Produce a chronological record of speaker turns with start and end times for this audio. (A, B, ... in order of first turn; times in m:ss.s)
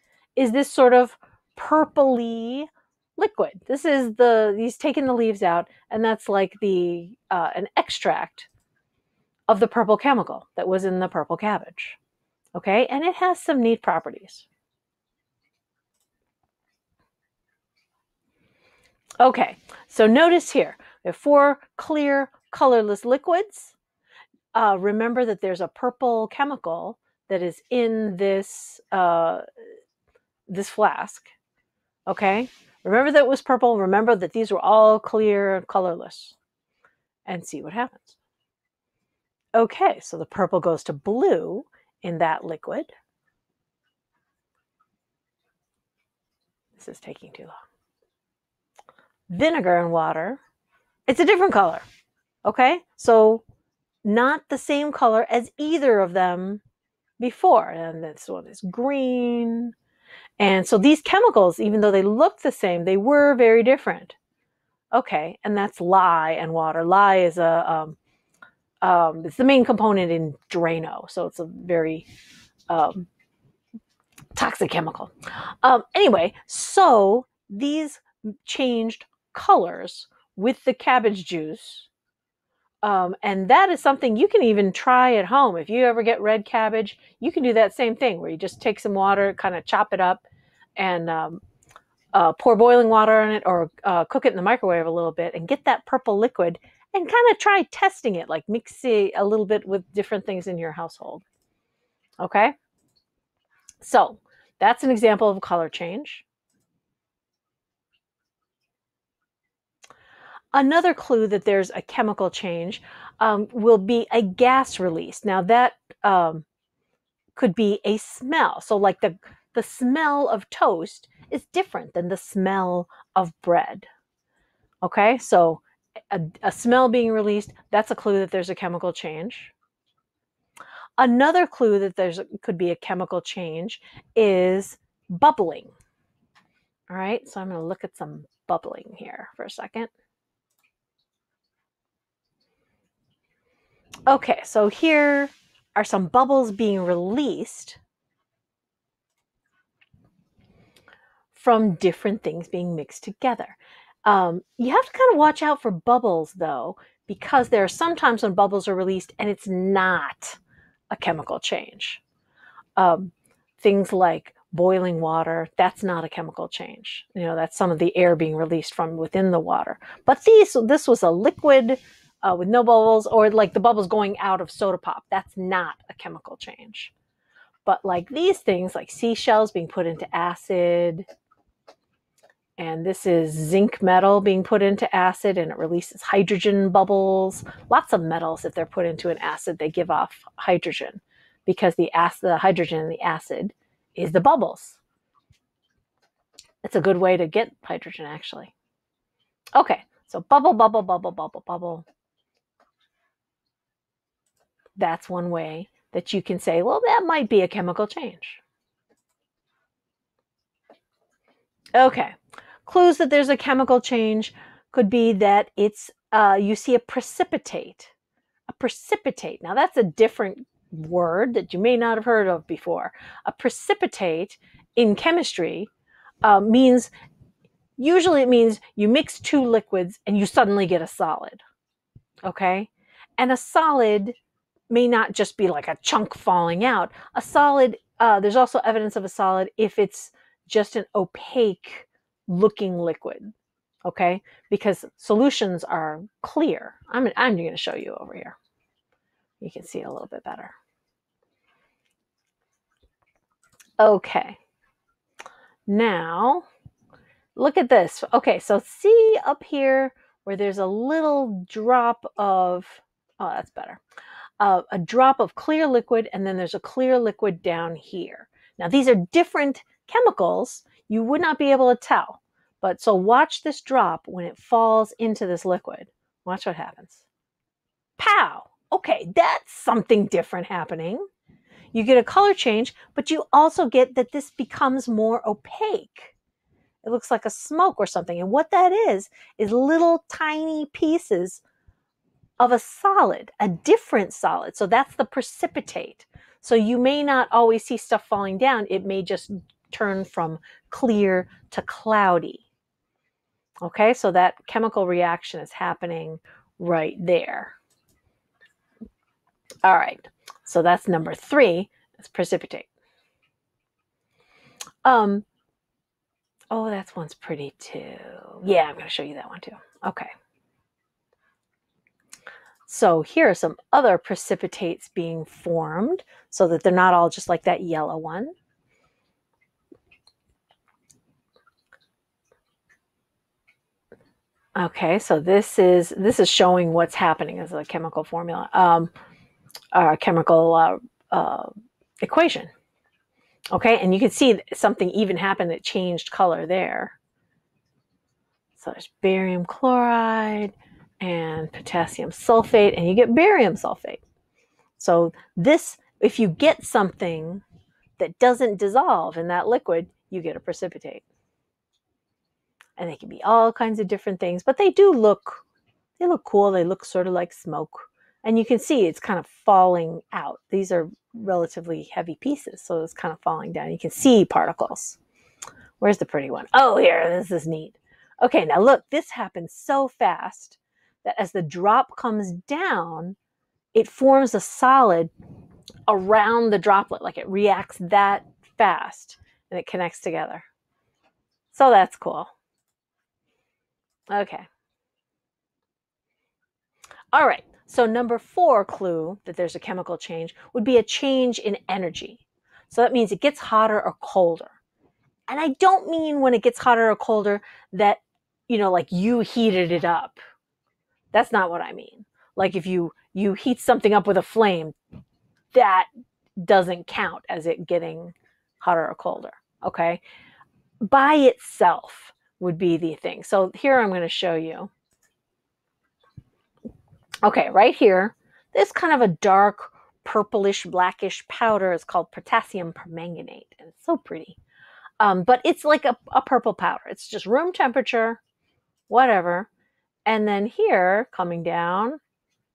0:00.4-0:08.5 A
0:09.5-0:12.0 A
0:12.5-0:14.4 A
0:19.2-0:23.8 A
0:24.5-0:29.4 A
0:30.5-0:31.3 A
0:32.1-0:36.4 A
0:37.2-0:38.2 A
0:39.5-0:42.9 A
0:46.8-0:47.6 A
0:49.3-0:50.4 A
0:51.1-0:51.8 A
0:52.4-0:53.4 A
0:54.0-0:56.6 A
0:57.2-0:59.7 A
1:00.4-1:04.2 A
1:04.9-1:08.0 A
1:08.8-1:12.1 A
1:12.7-1:13.1 A
1:14.3-1:21.9 A
1:22.8-1:30.2 A
1:30.8-1:31.4 A
1:32.1-1:41.2 A
1:42.2-1:42.6 A
1:43.8-1:46.2 A
1:50.5-1:56.4 A
1:57.4-2:03.9 A
2:04.8-2:09.5 A
2:11.0-2:15.7 A
2:16.9-2:19.9 A
2:24.1-2:27.8 A
2:31.3-2:40.4 A
2:40.9-2:42.0 A
2:42.8-2:56.9 A
2:57.6-3:01.1 A
3:02.6-3:14.8 A
3:16.6-3:18.5 A
3:19.5-3:21.8 A
3:24.8-3:28.4 A
3:31.7-3:32.1 A
3:32.6-3:37.9 A
3:38.5-3:45.7 A
3:46.2-3:46.9 A
3:47.8-3:51.4 A
3:52.2-3:54.2 A
3:54.7-4:03.3 A
4:03.8-4:08.4 A
4:09.4-4:10.5 A
4:13.8-4:14.4 A
4:15.7-4:16.4 A
4:17.4-4:23.8 A
4:24.4-4:37.0 A
4:38.0-4:41.0 A
4:41.7-4:46.1 A
4:46.8-4:51.4 A
4:52.4-5:02.4 A
5:03.6-5:07.5 A
5:09.6-5:12.7 A
5:14.8-5:15.2 A
5:16.5-5:20.1 A
5:22.7-5:28.3 A
5:34.6-5:38.9 A
5:39.7-5:42.5 A
5:43.5-5:47.0 A
5:48.6-5:54.0 A
5:54.8-5:57.4 A
5:58.0-6:01.0 A
6:02.8-6:05.4 A
6:06.0-6:15.0 A
6:15.8-6:23.2 A
6:23.7-6:25.1 A
6:25.9-6:30.4 A
6:31.5-6:32.3 A
6:34.1-6:34.5 A
6:37.1-6:44.6 A
6:45.3-6:50.2 A
6:51.1-6:54.7 A
6:55.5-6:55.9 A
6:56.4-7:00.0 A
7:00.8-7:04.7 A
7:07.2-7:14.4 A
7:15.0-7:18.2 A
7:18.9-7:19.5 A
7:20.0-7:22.0 A